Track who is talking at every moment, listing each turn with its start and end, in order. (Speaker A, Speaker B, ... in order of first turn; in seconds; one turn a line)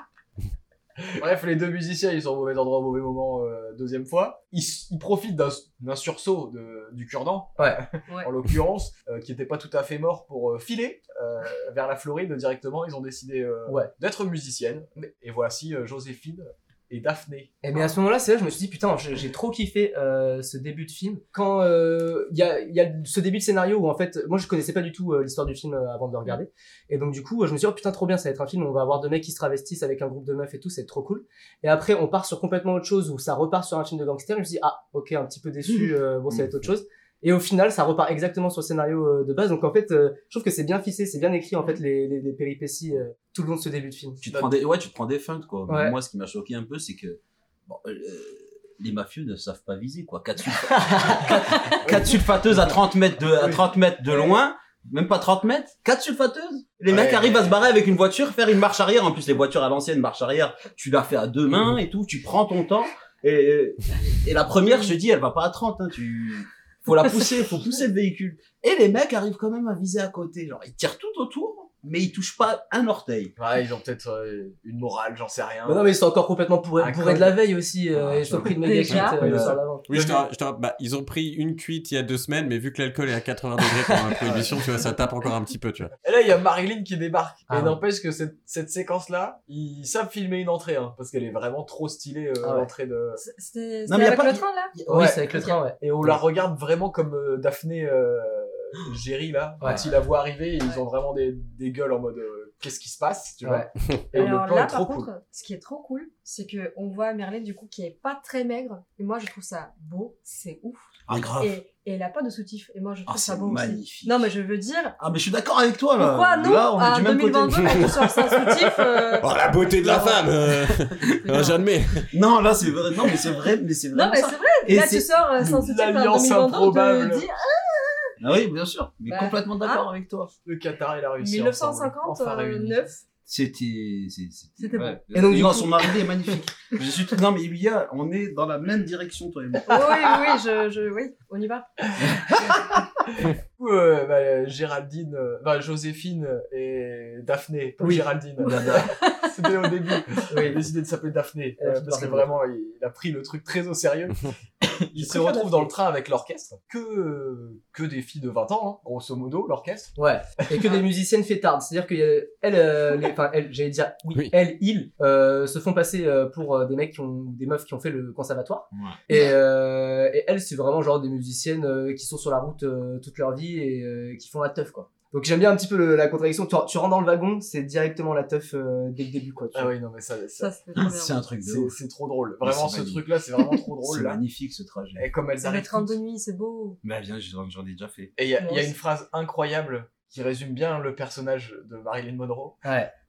Speaker A: 1.1-17.6
Speaker B: 17.6-44.2
Speaker C: 44.2-73.3
Speaker A: 44.3-44.5
Speaker B: 45.7-46.0
Speaker B: 50.7-51.8
Speaker A: 56.9-57.5
Speaker A: 73.4-75.9
Speaker B: 75.7-79.9
Speaker A: 76.8-77.4
Speaker A: 78.1-78.6
Speaker D: 78.6-79.4
Speaker C: 79.2-79.6
Speaker A: 79.3-80.2
Speaker E: 79.9-85.9
Speaker A: 84.2-84.6
Speaker A: 86.0-93.2
Speaker B: 87.5-87.8
Speaker B: 92.4-92.7
Speaker D: 93.2-94.7
Speaker C: 93.9-95.1
Speaker B: 94.9-95.8
Speaker A: 94.9-105.1
Speaker B: 103.4-103.7
Speaker D: 104.1-115.0
Speaker C: 111.1-111.6
Speaker C: 113.1-114.3
Speaker C: 115.0-117.9
Speaker D: 116.0-120.3
Speaker E: 119.2-122.1
Speaker D: 121.2-121.6
Speaker C: 122.1-125.5
Speaker D: 123.9-128.1
Speaker A: 125.6-127.3
Speaker C: 128.2-130.3
Speaker D: 129.1-129.9
Speaker A: 130.4-132.9
Speaker D: 131.2-133.0
Speaker C: 133.3-140.1
Speaker D: 134.6-135.1
Speaker B: 135.1-135.9
Speaker D: 139.7-141.7
Speaker A: 141.9-159.9
Speaker B: 147.8-148.1
Speaker C: 148.4-148.9
Speaker D: 148.7-149.3
Speaker B: 150.3-150.6
Speaker B: 151.6-152.3
Speaker B: 155.0-155.7
Speaker B: 160.0-179.7
Speaker C: 168.7-169.0
Speaker A: 179.5-180.5
Speaker D: 180.4-181.3
Speaker C: 180.8-181.8
Speaker A: 181.4-184.2
Speaker C: 182.4-183.1
Speaker C: 183.8-185.1
Speaker A: 185.0-186.0
Speaker D: 185.4-186.8
Speaker C: 186.8-188.1
Speaker A: 188.2-192.6
Speaker D: 188.4-188.8
Speaker B: 192.6-192.9